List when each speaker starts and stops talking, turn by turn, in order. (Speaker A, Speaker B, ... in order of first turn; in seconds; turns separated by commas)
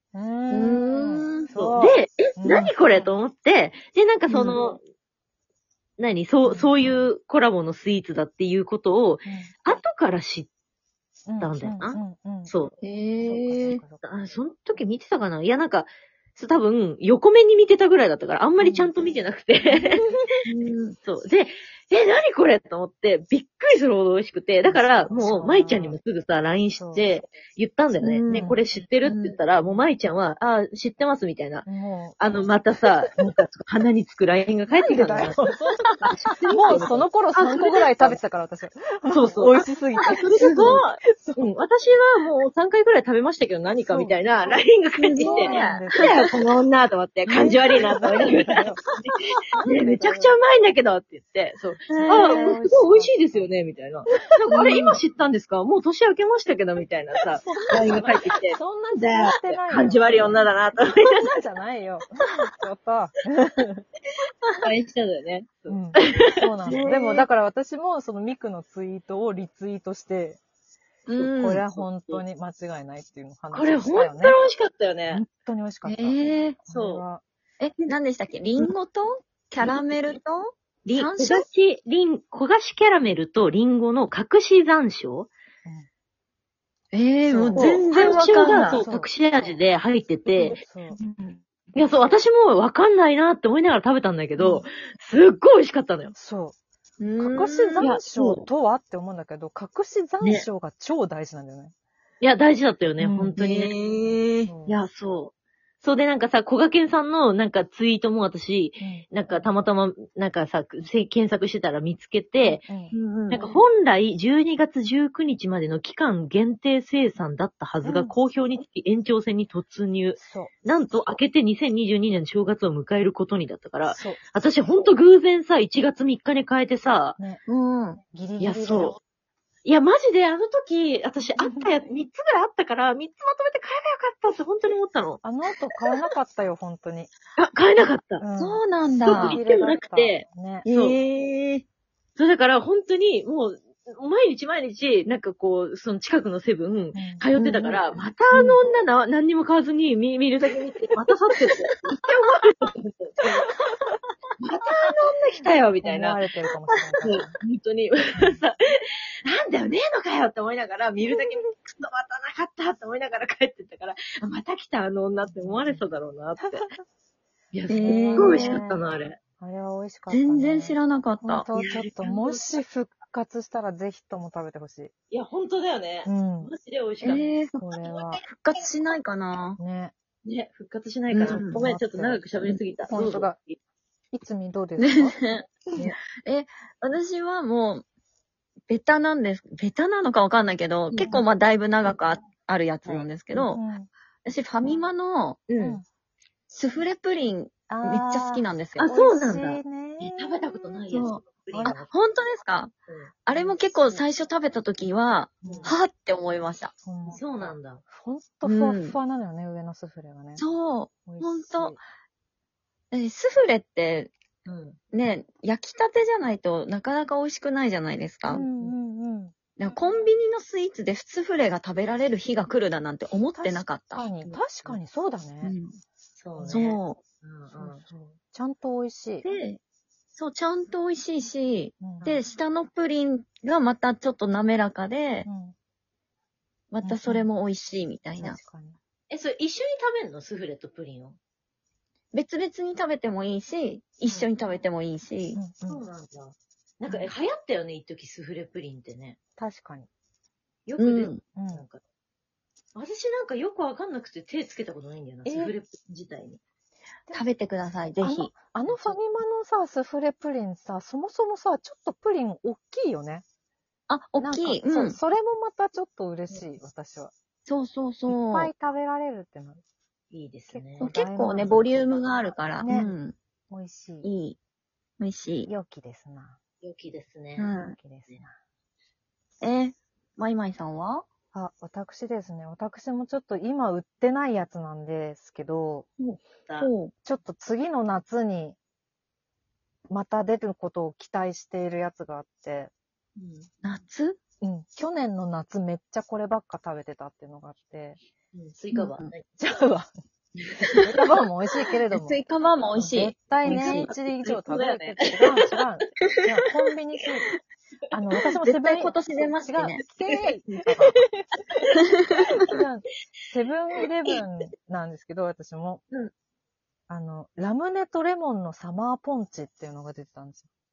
Speaker A: 0.1-3.2, Speaker B: 0.5-1.5, Speaker C: 1.5-4.8, Speaker B: 4.3-4.6, Speaker C: 6.0-10.5, Speaker A: 6.4-6.9, Speaker A: 9.2-9.5, Speaker A: 11.3-12.6, Speaker C: 11.4-12.7, Speaker B: 12.8-13.8, Speaker A: 13.2-14.0, Speaker C: 14.0-20.1, Speaker A: 18.6-18.9, Speaker A: 19.7-20.2, Speaker B: 20.4-21.0, Speaker C: 21.0-31.6, Speaker A: 24.6-26.0, Speaker A: 26.8-27.1, Speaker B: 28.0-28.5, Speaker A: 28.3-28.6, Speaker B: 29.0-29.4, Speaker A: 29.5-29.9, Speaker A: 31.6-32.5, Speaker C: 32.2-38.2, Speaker A: 34.9-35.9, Speaker A: 36.5-41.5, Speaker C: 39.1-61.0, Speaker B: 40.0-40.8, Speaker A: 43.9-44.6, Speaker B: 45.0-46.3, Speaker A: 45.2-46.2, Speaker B: 47.3-47.9, Speaker A: 47.6-48.8, Speaker A: 49.7-50.4, Speaker B: 51.9-52.6, Speaker A: 52.0-53.5, Speaker B: 54.5-55.0, Speaker A: 57.4-63.8, Speaker B: 57.6-58.0, Speaker C: 64.5-66.9, Speaker A: 65.7-70.4, Speaker B: 66.7-67.3, Speaker B: 71.1-71.6, Speaker C: 71.1-72.2, Speaker A: 71.4-74.4, Speaker C: 73.5-75.2, Speaker A: 75.1-77.2, Speaker B: 75.8-76.6, Speaker C: 76.7-77.0, Speaker B: 77.6-81.5, Speaker C: 79.6-80.2, Speaker C: 80.8-85.3, Speaker B: 86.9-88.8, Speaker A: 87.3-89.6, Speaker C: 87.5-90.6, Speaker B: 90.3-91.4, Speaker A: 90.5-91.0, Speaker C: 91.7-96.1, Speaker B: 94.4-94.6, Speaker A: 96.1-96.6, Speaker B: 97.0-97.9, Speaker A: 97.2-101.7, Speaker C: 97.8-98.5, Speaker C: 100.2-100.5, Speaker C: 102.2-103.7, Speaker A: 103.0-103.4, Speaker B: 103.4-104.5, Speaker A: 104.5-104.8, Speaker C: 104.7-112.7, Speaker A: 108.8-109.1, Speaker A: 112.4-113.5, Speaker B: 112.9-113.6, Speaker C: 113.3-127.2, Speaker A: 117.8-118.2, Speaker A: 120.2-120.5, Speaker A: 123.9-124.2, Speaker B: 127.5-128.0, Speaker A: 128.1-129.0, Speaker C: 128.4-129.0, Speaker C: 129.6-135.2, Speaker A: 131.4-131.7, Speaker A: 135.2-137.1, Speaker C: 137.3-138.2, Speaker A: 138.2-140.7, Speaker B: 138.3-139.4, Speaker C: 139.0-141.0, Speaker B: 140.6-141.6, Speaker C: 142.2-153.7, Speaker A: 146.9-147.3, Speaker B: 147.3-147.8, Speaker B: 148.3-148.6, Speaker C: 154.4-156.2, Speaker A: 155.4-157.4, Speaker C: 157.0-158.6, Speaker C: 159.2-166.7, Speaker A: 165.2-165.8, Speaker A: 166.4-166.7, Speaker C: 167.5-169.2, Speaker B: 167.7-168.6, Speaker A: 167.8-168.8, Speaker A: 169.4-174.9, Speaker B: 170.1-171.5, Speaker C: 171.5-172.4, Speaker C: 175.1-177.9, Speaker A: 176.0-176.5, Speaker B: 177.0-179.6, Speaker A: 177.1-178.2, Speaker A: 179.6-179.9, Speaker C: 180.2-183.6, Speaker B: 181.1-181.6, Speaker A: 181.2-182.2, Speaker A: 182.9-183.3, Speaker A: 184.1-185.2, Speaker B: 184.8-187.8, Speaker B: 188.7-193.6, Speaker C: 190.9-191.2, Speaker A: 192.9-193.9, Speaker B: 194.2-195.5, Speaker C: 195.5-195.8, Speaker A: 195.6-195.8, Speaker B: 196.5-198.9, Speaker A: 197.7-200.4, Speaker C: 198.8-201.9, Speaker B: 200.9-201.2, Speaker A: 201.5-201.8, Speaker B: 201.9-202.7, Speaker C: 202.9-203.3, Speaker B: 203.2-206.8, Speaker A: 203.3-204.0, Speaker A: 205.4-205.8, Speaker C: 205.4-205.8, Speaker A: 206.8-210.4, Speaker C: 207.1-207.8, Speaker B: 208.4-209.0, Speaker B: 210.4-211.8, Speaker A: 211.1-211.8, Speaker B: 212.9-214.1, Speaker C: 214.4-214.8, Speaker B: 214.9-218.8, Speaker A: 218.3-220.0, Speaker B: 219.6-224.1, Speaker A: 223.3-225.6, Speaker C: 224.2-224.8, Speaker B: 225.4-225.8, Speaker C: 226.1-227.8, Speaker A: 226.3-226.6, Speaker B: 226.5-227.0, Speaker A: 227.5-229.2, Speaker C: 229.2-229.6, Speaker B: 229.2-229.6, Speaker B: 230.1-235.3, Speaker A: 231.8-232.2, Speaker A: 235.2-235.6, Speaker B: 236.7-238.4, Speaker A: 236.8-237.3, Speaker A: 238.2-238.8, Speaker C: 239.1-241.2, Speaker B: 242.1-245.4, Speaker C: 244.0-244.3, Speaker A: 245.3-245.8, Speaker C: 245.7-249.2, Speaker A: 246.9-247.1, Speaker A: 249.4-249.9, Speaker C: 250.7-251.8, Speaker B: 250.8-251.2, Speaker A: 251.3-251.7, Speaker C: 252.7-256.4, Speaker A: 255.2-255.5, Speaker B: 257.1-258.3, Speaker A: 258.0-263.2, Speaker C: 258.7-258.9, Speaker B: 263.9-265.0, Speaker A: 264.2-267.1, Speaker B: 267.4-268.5, Speaker A: 268.1-269.6, Speaker C: 270.1-270.9, Speaker A: 270.5-271.7, Speaker B: 270.8-273.1, Speaker A: 272.6-272.9, Speaker A: 273.5-274.1, Speaker B: 274.0-274.4, Speaker B: 275.0-275.5, Speaker A: 275.4-276.4, Speaker C: 276.6-277.5, Speaker B: 277.4-277.8, Speaker A: 277.7-278.3, Speaker B: 279.4-281.0, Speaker A: 281.3-285.9, Speaker B: 286.0-286.9, Speaker C: 286.4-286.7, Speaker A: 287.0-288.6, Speaker A: 289.9-292.7, Speaker C: 293.2-293.5, Speaker B: 293.6-294.2, Speaker A: 294.4-298.0, Speaker C: 298.3-299.3, Speaker B: 298.7-299.1, Speaker A: 299.4-299.9, Speaker B: 300.6-300.9, Speaker A: 300.8-302.2, Speaker B: 301.9-303.9, Speaker A: 302.7-307.3, Speaker C: 303.4-305.4, Speaker A: 307.9-311.3, Speaker B: 308.2-310.3, Speaker C: 310.3-310.6, Speaker B: 311.7-312.5, Speaker A: 312.4-315.8, Speaker A: 316.9-320.5